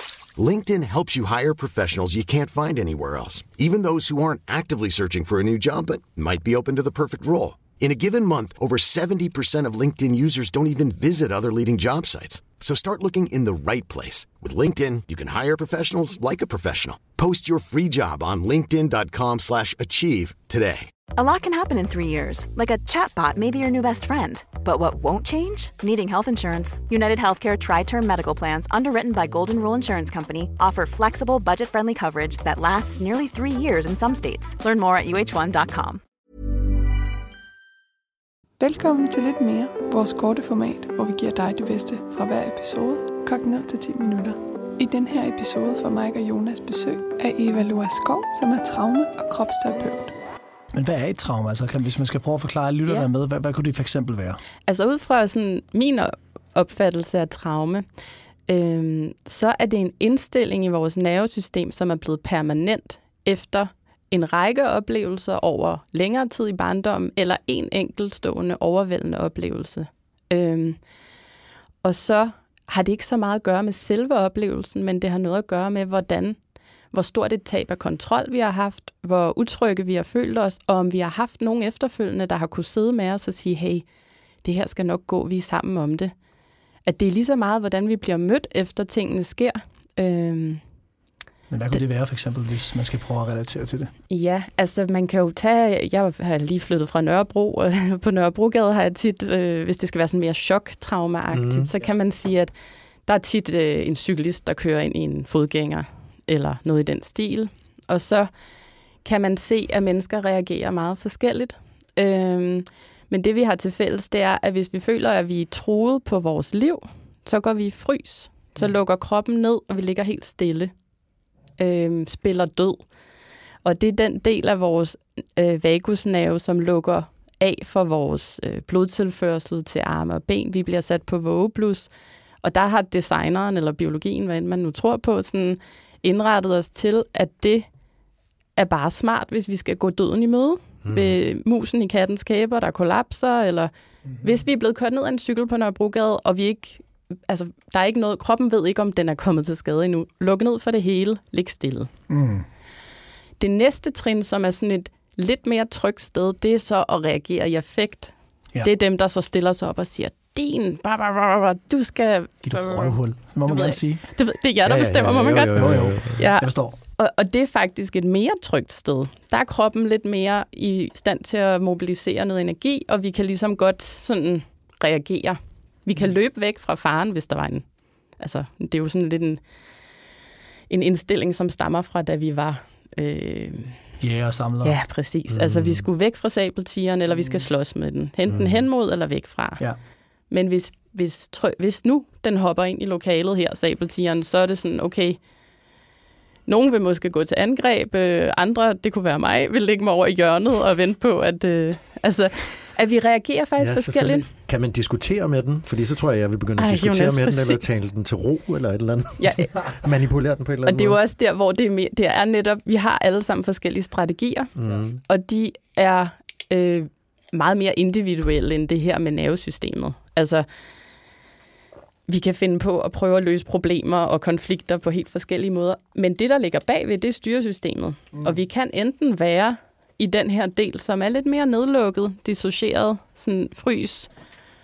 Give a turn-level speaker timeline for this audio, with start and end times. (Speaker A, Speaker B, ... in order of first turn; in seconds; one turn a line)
Speaker A: 0.4-20.9
Speaker B: 21.2-36.0
Speaker C: 38.6-50.1
Speaker D: 50.7-54.4
Speaker E: 54.7-57.8
Speaker E: 58.5-70.8
Speaker E: 71.8-76.4
Speaker E: 76.9-83.9
Speaker E: 84.4-86.1
Speaker E: 86.9-90.6
Speaker D: 91.5-93.9
Speaker E: 94.1-102.5
Speaker F: 101.3-101.7
Speaker E: 103.1-108.3
Speaker E: 109.0-120.7
Speaker E: 121.6-122.8
Speaker E: 123.6-131.9
Speaker E: 132.4-137.7
Speaker E: 138.6-151.9
Speaker F: 140.8-141.2
Speaker D: 152.1-152.5
Speaker E: 153.4-177.7
Speaker D: 162.4-164.1
Speaker F: 164.6-166.3
Speaker D: 165.5-166.8
Speaker E: 178.2-179.4
Speaker E: 180.7-183.8
Speaker D: 184.0-184.8
Speaker E: 184.6-189.7
Speaker F: 185.3-185.9
Speaker F: 188.3-188.7
Speaker E: 190.3-195.2
Speaker E: 196.5-204.3
Speaker F: 203.6-211.0
Speaker E: 206.6-207.6
Speaker E: 209.2-209.7
Speaker E: 210.6-214.5
Speaker F: 214.6-215.0
Speaker E: 215.1-220.5
Speaker E: 222.1-234.1